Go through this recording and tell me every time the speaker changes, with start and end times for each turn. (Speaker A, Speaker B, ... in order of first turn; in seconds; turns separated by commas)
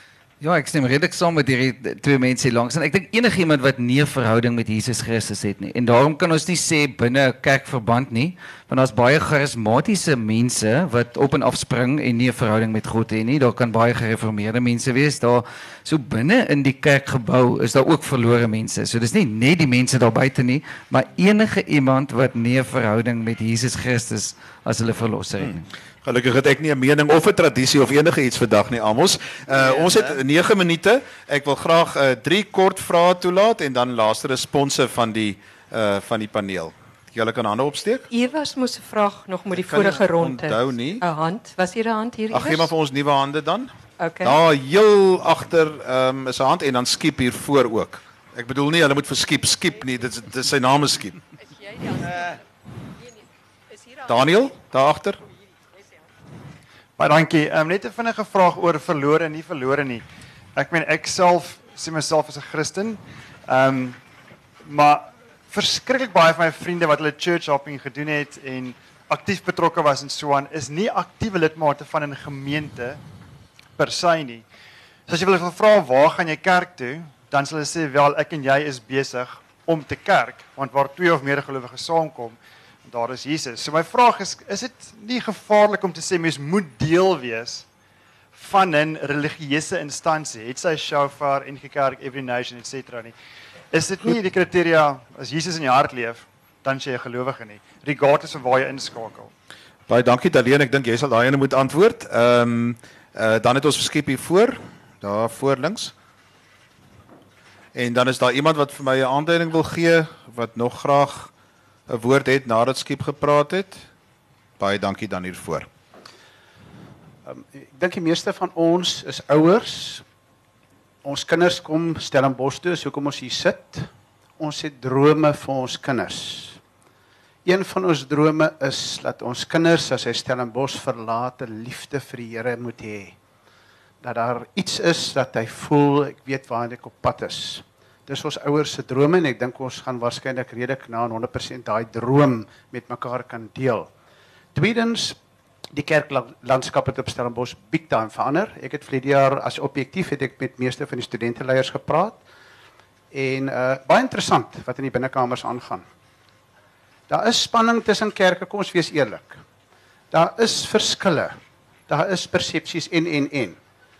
Speaker A: 0.4-25.6, Speaker B: 25.4-38.0, Speaker C: 38.1-42.7, Speaker B: 39.5-41.0, Speaker B: 42.3-51.2, Speaker C: 44.0-44.4, Speaker B: 54.0-55.2, Speaker D: 57.0-64.0, Speaker D: 64.6-73.0, Speaker D: 73.8-74.5, Speaker D: 75.1-87.6, Speaker D: 88.3-93.1, Speaker D: 93.7-99.3, Speaker B: 99.9-105.9, Speaker B: 107.7-111.3, Speaker B: 111.9-113.9, Speaker B: 114.6-115.7, Speaker E: 117.3-120.0, Speaker E: 121.0-126.6, Speaker E: 127.5-133.2, Speaker E: 134.0-143.9, Speaker E: 144.6-145.2, Speaker E: 145.7-152.2, Speaker E: 153.1-155.8, Speaker E: 157.1-159.4, Speaker E: 160.1-161.4, Speaker E: 161.9-163.6